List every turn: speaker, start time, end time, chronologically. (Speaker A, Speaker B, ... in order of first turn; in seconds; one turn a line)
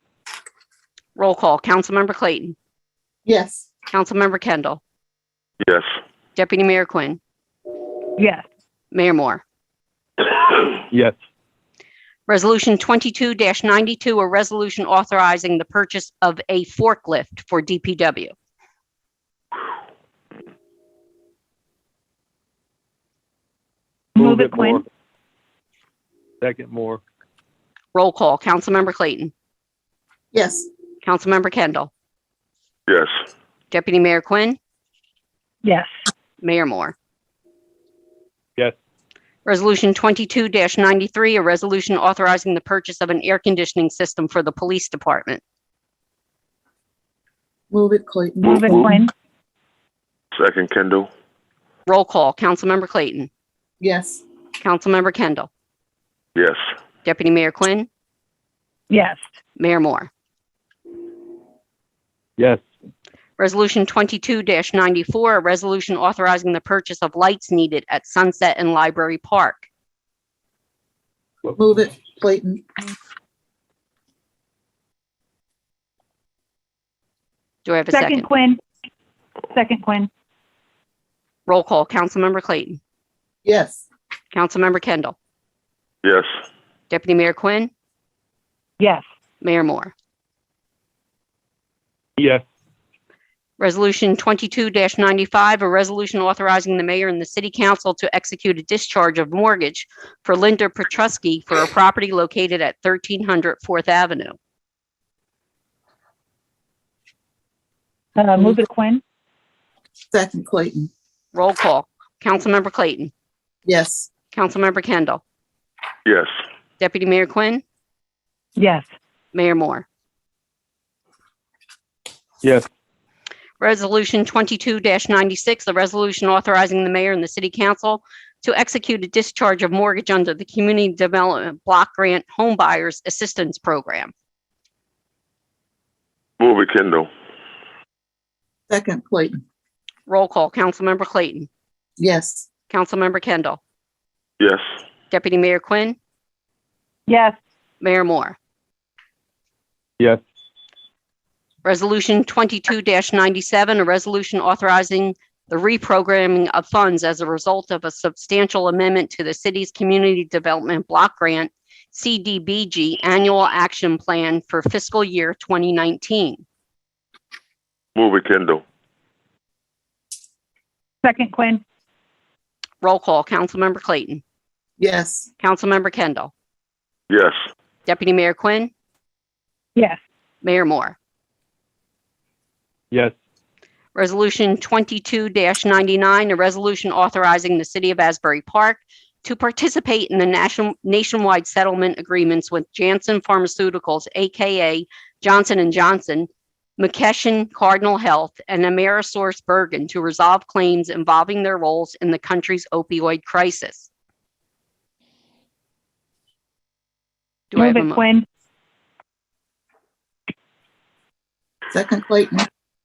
Speaker A: 1.2-2.6
Speaker B: 3.2-3.7
Speaker A: 3.9-4.8
Speaker A: 6.3-7.2
Speaker C: 8.2-8.4
Speaker A: 8.9-9.4
Speaker D: 10.9-11.1
Speaker A: 12.3-18.3
Speaker C: 24.2-24.8
Speaker D: 24.2-24.9
Speaker D: 26.4-27.0
Speaker A: 27.9-29.3
Speaker B: 30.3-30.7
Speaker A: 31.0-31.9
Speaker A: 33.7-34.6
Speaker C: 35.6-35.9
Speaker A: 36.4-37.0
Speaker A: 39.5-45.4
Speaker B: 47.7-49.0
Speaker C: 48.4-49.1
Speaker E: 48.4-48.8
Speaker E: 50.3-51.1
Speaker A: 51.9-53.3
Speaker B: 53.8-54.2
Speaker A: 54.6-55.5
Speaker E: 56.4-56.6
Speaker A: 57.0-57.9
Speaker C: 58.9-59.2
Speaker A: 59.6-60.1
Speaker A: 63.4-69.7
Speaker B: 71.5-72.8
Speaker A: 77.6-78.3
Speaker C: 77.9-78.6
Speaker C: 79.5-80.1
Speaker A: 81.5-82.8
Speaker B: 83.4-83.9
Speaker A: 84.3-85.2
Speaker A: 86.9-87.7
Speaker A: 89.4-89.9
Speaker D: 92.2-92.4
Speaker A: 93.6-104.4
Speaker C: 108.2-109.0
Speaker B: 110.1-110.9
Speaker A: 111.3-113.1
Speaker B: 113.6-114.1
Speaker A: 114.3-115.2
Speaker E: 116.0-116.3
Speaker A: 116.8-117.6
Speaker C: 118.5-118.9
Speaker A: 119.3-119.9
Speaker A: 123.6-134.1
Speaker E: 136.4-137.1
Speaker B: 138.7-139.4
Speaker A: 140.1-141.5
Speaker B: 142.0-142.5
Speaker A: 142.7-143.6
Speaker E: 144.4-144.7
Speaker A: 145.1-146.0
Speaker C: 147.1-147.4
Speaker A: 147.8-148.4
Speaker A: 151.7-166.4
Speaker E: 168.0-168.6
Speaker C: 171.0-171.6
Speaker A: 172.8-174.2
Speaker B: 174.8-175.3
Speaker A: 175.4-176.3
Speaker E: 177.1-177.4
Speaker A: 177.9-178.7
Speaker A: 180.4-181.0
Speaker A: 183.9-203.9
Speaker A: 207.5-208.1
Speaker C: 207.6-208.3
Speaker B: 211.7-212.5